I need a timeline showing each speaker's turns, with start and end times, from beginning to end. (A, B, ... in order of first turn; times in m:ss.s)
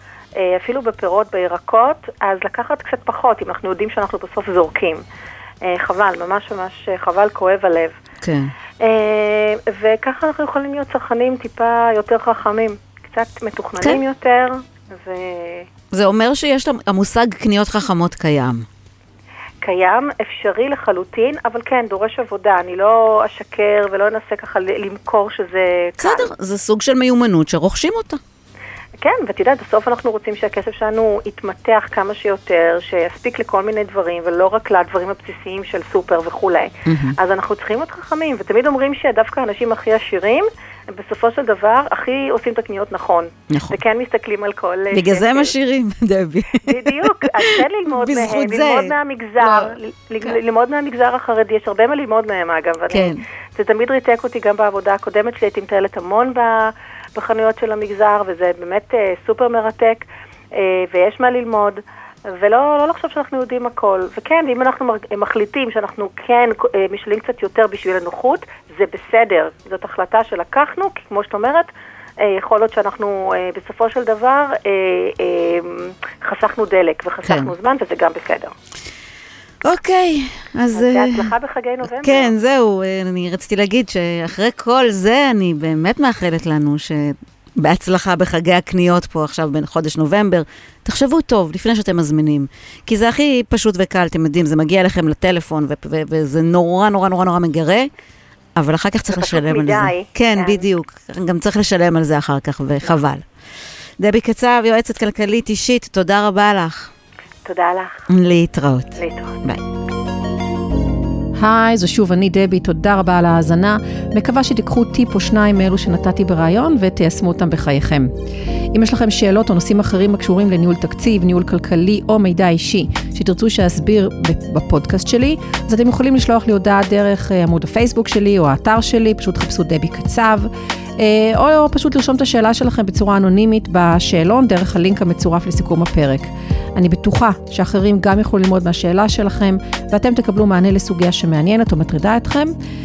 0:00.4-0:05.0 A
0:05.6-0:08.0 A
0:08.2-0:08.5 B
0:08.8-0:15.7 A
0:15.9-0:18.6 B
0:19.6-0:26.3 A
0:26.0-0:28.2 B
0:29.0-0:45.5 A
0:36.9-0:37.2 B
0:43.5-0:43.8 B
0:44.9-0:49.7 B
0:46.6-1:18.5 A
0:52.9-0:53.2 B
1:17.2-1:17.5 B
1:19.6-1:21.3 B
1:20.7-1:22.3 A
1:21.9-1:37.9 B
1:38.6-1:43.2 B
1:39.1-1:40.7 A
1:44.0-1:46.9 B
1:47.4-1:48.1 A
1:48.1-1:49.6 B
1:48.9-1:49.4 A
1:51.4-1:58.1 C
1:58.7-2:22.5 C